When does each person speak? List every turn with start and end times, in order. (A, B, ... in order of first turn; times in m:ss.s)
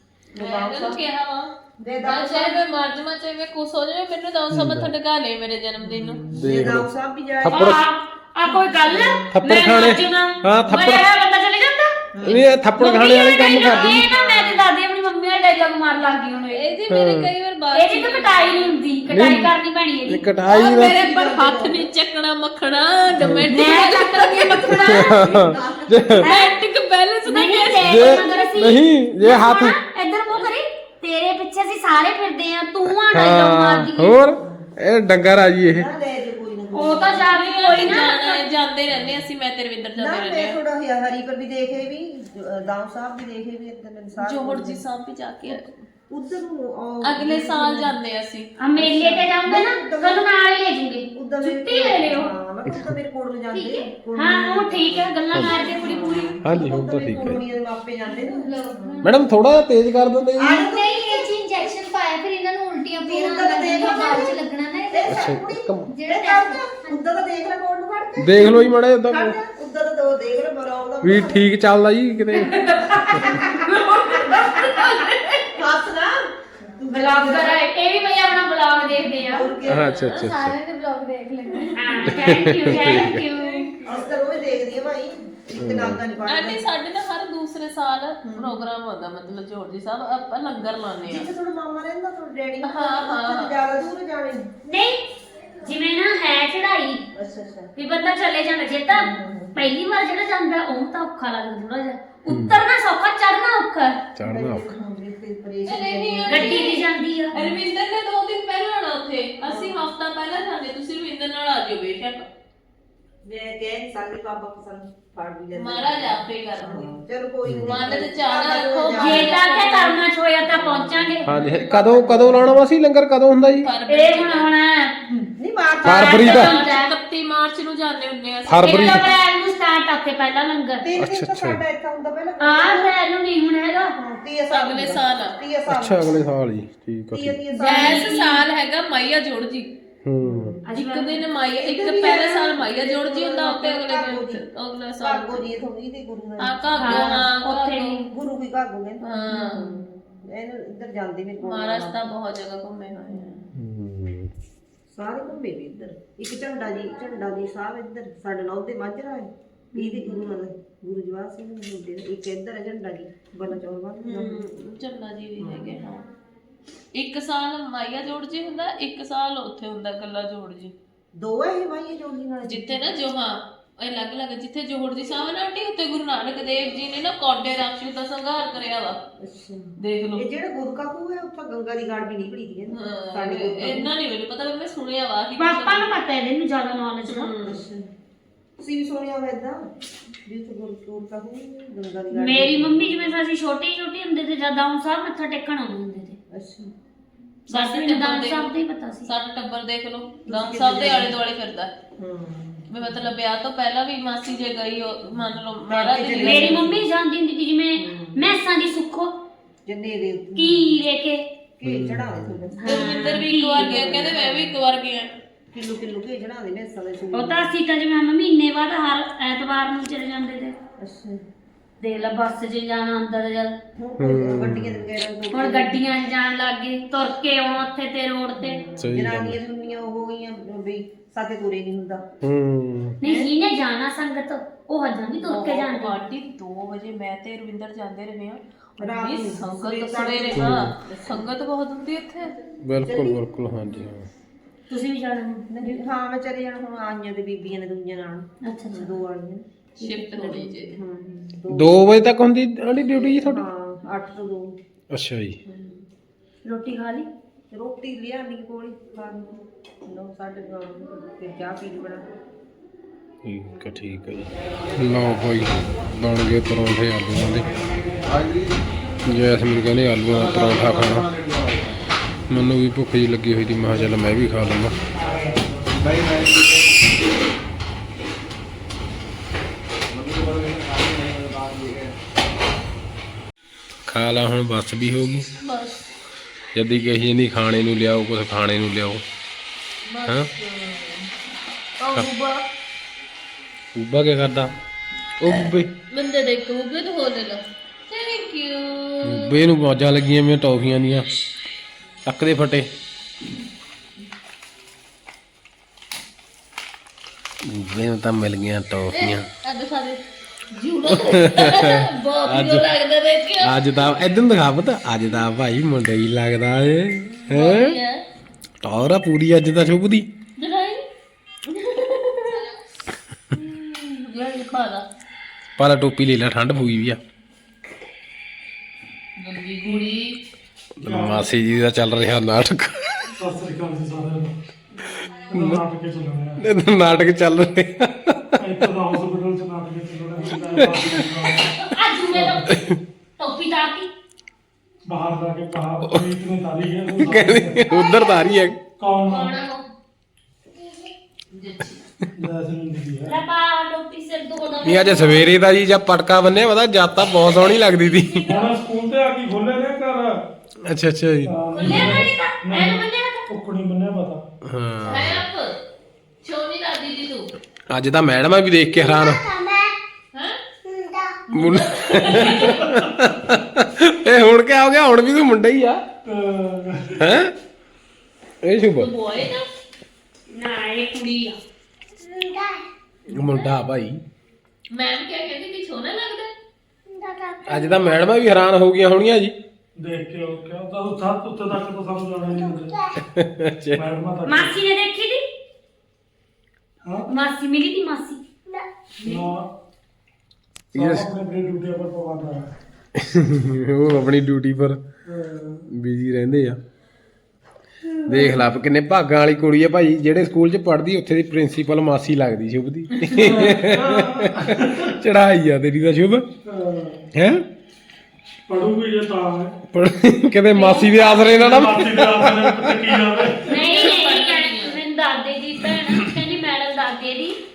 0:00.3-0:01.5 A
0:00.3-0:01.0 B
0:01.8-0:02.6 B
0:02.0-0:06.2 A
0:04.5-0:04.9 C
0:05.8-0:07.8 B
0:06.4-0:06.9 C
0:07.4-0:07.8 C
0:07.5-0:12.0 D
0:08.4-0:09.3 B
0:09.3-0:11.1 C
0:12.1-0:12.4 B
0:12.2-0:14.1 C
0:12.8-0:16.7 D
0:13.7-0:14.6 B
0:16.5-0:18.8 A
0:16.9-0:17.3 C
0:17.7-0:20.2 D
0:19.1-0:19.5 C
0:20.1-0:21.0 C
0:20.5-0:21.9 B
0:20.5-0:25.2 A
0:23.2-0:23.5 C
0:23.5-0:25.5 D
0:24.8-0:26.3 C
0:24.9-0:26.3 B
0:26.2-0:26.6 D
0:26.2-0:28.4 A
0:27.3-0:34.2 D
0:27.8-0:29.8 C
0:33.1-0:35.9 C
0:34.4-0:34.7 B
0:35.6-0:38.0 B
0:36.7-0:38.5 D
0:37.3-0:40.6 A
0:38.9-0:39.2 B
0:40.0-0:44.8 B
0:44.2-0:45.9 A
0:45.5-0:48.0 B
0:47.0-0:48.5 A
0:48.6-0:52.3 D
0:48.8-0:50.3 B
0:51.1-0:59.1 B
0:52.7-0:52.9 C
0:53.5-0:56.6 D
0:55.3-0:55.6 C
0:56.4-0:57.4 C
0:58.4-0:58.9 D
0:59.0-1:00.7 C
1:00.4-1:01.7 B
1:00.6-1:05.1 E
1:01.2-1:04.7 D
1:03.0-1:11.5 B
1:05.1-1:06.0 C
1:05.9-1:07.0 E
1:08.2-1:09.4 C
1:11.0-1:13.3 C
1:12.4-1:15.3 D
1:13.2-1:17.7 B
1:16.9-1:19.5 D
1:19.2-1:20.1 B
1:19.7-1:20.6 C
1:19.8-1:20.5 A
1:20.4-1:21.9 E
1:21.5-1:24.2 A
1:21.7-1:23.7 D
1:22.0-1:23.2 C
1:23.8-1:26.6 B
1:25.6-1:26.0 C
1:26.2-1:31.3 A
1:28.2-1:28.6 B
1:31.1-1:34.9 B
1:32.6-1:33.6 A
1:34.7-1:35.0 D
1:35.6-1:37.0 D
1:37.1-1:37.7 B
1:37.8-1:44.0 D
1:38.9-1:39.6 B
1:42.3-1:42.6 C
1:44.2-1:44.7 C
1:44.3-1:46.8 B
1:45.6-1:52.3 A
1:46.3-1:47.4 D
1:49.4-1:49.9 B
1:53.2-1:59.4 B
1:55.6-1:56.9 A
1:57.5-1:57.8 C
1:57.6-2:00.0 A
1:59.0-2:01.3 D
2:00.4-2:02.6 B
2:01.3-2:03.7 C
2:03.6-2:04.5 A
2:03.9-2:05.0 D
2:05.1-2:06.4 B
2:05.8-2:06.5 C
2:05.8-2:06.9 D
2:06.1-2:09.2 A
2:08.5-2:09.0 C
2:08.6-2:10.9 D
2:10.8-2:12.9 B
2:11.0-2:11.6 C
2:12.4-2:14.0 D
2:14.0-2:16.2 B
2:14.5-2:15.4 A
2:15.7-2:17.4 C
2:17.1-2:18.2 B
2:17.6-2:18.4 D
2:17.6-2:19.7 A
2:20.0-2:20.6 C
2:20.2-2:20.7 B
2:20.7-2:21.2 D
2:20.7-2:25.5 A
2:21.5-2:24.4 B
2:25.0-2:27.3 B
2:26.4-2:28.0 A
2:26.8-2:28.1 D
2:28.0-2:32.1 B
2:29.0-2:29.8 A
2:31.4-2:33.5 A
2:33.1-2:33.4 B
2:33.5-2:34.3 C
2:34.9-2:44.4 B
2:44.0-2:46.1 A
2:45.4-2:45.8 B
2:46.9-2:50.7 A
2:51.2-2:52.9 B
2:52.4-2:59.0 A
2:59.2-3:03.9 B
2:59.8-3:00.3 A
3:02.7-3:05.9 A
3:05.4-3:07.3 D
3:07.0-3:07.6 A
3:07.4-3:07.9 B
3:08.6-3:09.7 B
3:10.3-3:13.0 B
3:12.1-3:16.2 D
3:16.3-3:16.7 B
3:17.5-3:18.5 A
3:17.5-3:19.1 D
3:19.0-3:21.7 A
3:20.3-3:21.2 B
3:22.0-3:23.1 B
3:22.7-3:26.7 A
3:25.7-3:26.8 B
3:26.2-3:29.1 D
3:27.8-3:28.3 B
3:29.7-3:30.7 B
3:30.4-3:31.2 D
3:31.6-3:34.6 B
3:31.6-3:32.4 C
3:32.6-3:34.1 D
3:32.6-3:35.2 A
3:35.5-3:37.5 B
3:37.1-3:40.6 D
3:40.8-3:41.2 B
3:41.8-3:43.6 D
3:43.8-3:45.8 B
3:44.0-3:44.9 C
3:45.3-3:48.6 D
3:48.4-3:52.0 B
3:48.8-3:49.4 C
3:52.2-3:53.0 C
3:53.0-3:56.0 D
3:53.0-3:53.3 B
3:55.2-4:02.4 A
3:58.8-4:00.7 B
4:00.4-4:00.7 C
4:02.6-4:04.1 C
4:02.8-4:03.2 B
4:04.7-4:05.7 D
4:05.5-4:11.9 B
4:08.4-4:09.0 D
4:09.8-4:10.8 A
4:11.5-4:13.4 C
4:13.1-4:14.6 B
4:14.9-4:15.4 C
4:15.4-4:15.8 B
4:16.4-4:17.1 D
4:17.5-4:22.0 B
4:23.2-4:27.5 C
4:29.1-4:31.1 C
4:32.3-4:34.8 C
4:43.9-4:45.3 C
4:45.4-4:45.8 A
4:46.6-4:49.0 C
4:49.9-4:51.1 A
4:51.8-4:52.4 A
4:53.8-4:54.5 C
4:55.2-4:55.7 C
4:55.9-4:59.4 A
4:59.0-5:01.1 C
5:02.0-5:02.7 C
5:07.4-5:09.3 C
5:08.9-5:10.0 A
5:10.5-5:13.9 A
5:10.9-5:12.7 C
5:13.4-5:17.8 C
5:17.3-5:18.0 A
5:18.6-5:20.1 C
5:20.4-5:20.8 A
5:21.5-5:22.5 A
5:23.3-5:24.9 A
5:25.6-5:27.0 C
5:29.2-5:30.2 A
5:30.8-5:33.1 C
5:30.8-5:31.3 F
5:33.2-5:34.4 F
5:35.3-5:35.6 C
5:35.3-5:36.4 F
5:36.4-5:38.4 C
5:38.4-5:41.5 F
5:40.5-5:41.2 C
5:41.4-5:42.6 D
5:42.5-5:42.8 C
5:43.2-5:43.9 D
5:44.9-5:47.6 F
5:46.9-5:48.6 C
5:47.8-5:48.2 D
5:48.8-5:49.4 F
5:49.0-5:49.7 A
5:51.3-5:51.8 A
5:52.2-5:53.2 F
5:53.1-5:55.3 D
5:54.6-5:58.3 C
5:58.3-6:00.2 F
6:00.6-6:02.1 C
6:01.3-6:04.2 F
6:01.5-6:03.3 D
6:04.4-6:05.2 C
6:04.9-6:05.6 A
6:06.2-6:07.3 A
6:07.7-6:09.3 C
6:09.3-6:09.7 D
6:11.3-6:12.6 A
6:11.3-6:15.8 C
6:16.1-6:17.0 F
6:17.0-6:17.3 C
6:18.4-6:18.9 C
6:18.8-6:19.5 A
6:20.3-6:21.4 D
6:22.1-6:22.6 E
6:23.1-6:24.0 C
6:24.7-6:26.3 A
6:27.0-6:27.4 E
6:27.4-6:29.4 C
6:29.8-6:32.8 F
6:32.9-6:33.8 C
6:33.8-6:34.6 F
6:34.2-6:35.2 D
6:36.8-6:37.1 F
6:37.1-6:38.2 D
6:39.0-6:39.5 F
6:40.7-6:42.5 F
6:40.8-6:41.1 C
6:43.0-6:44.8 C
6:45.1-6:45.7 F
6:45.7-6:46.6 C
6:48.0-6:56.3 C
6:53.1-6:55.0 F
6:56.4-6:57.0 F
6:57.1-6:57.4 C
6:58.5-6:59.6 F
6:59.7-7:03.3 C
7:00.5-7:01.4 D
7:01.2-7:03.6 F
7:03.5-7:07.4 D
7:03.5-7:04.8 A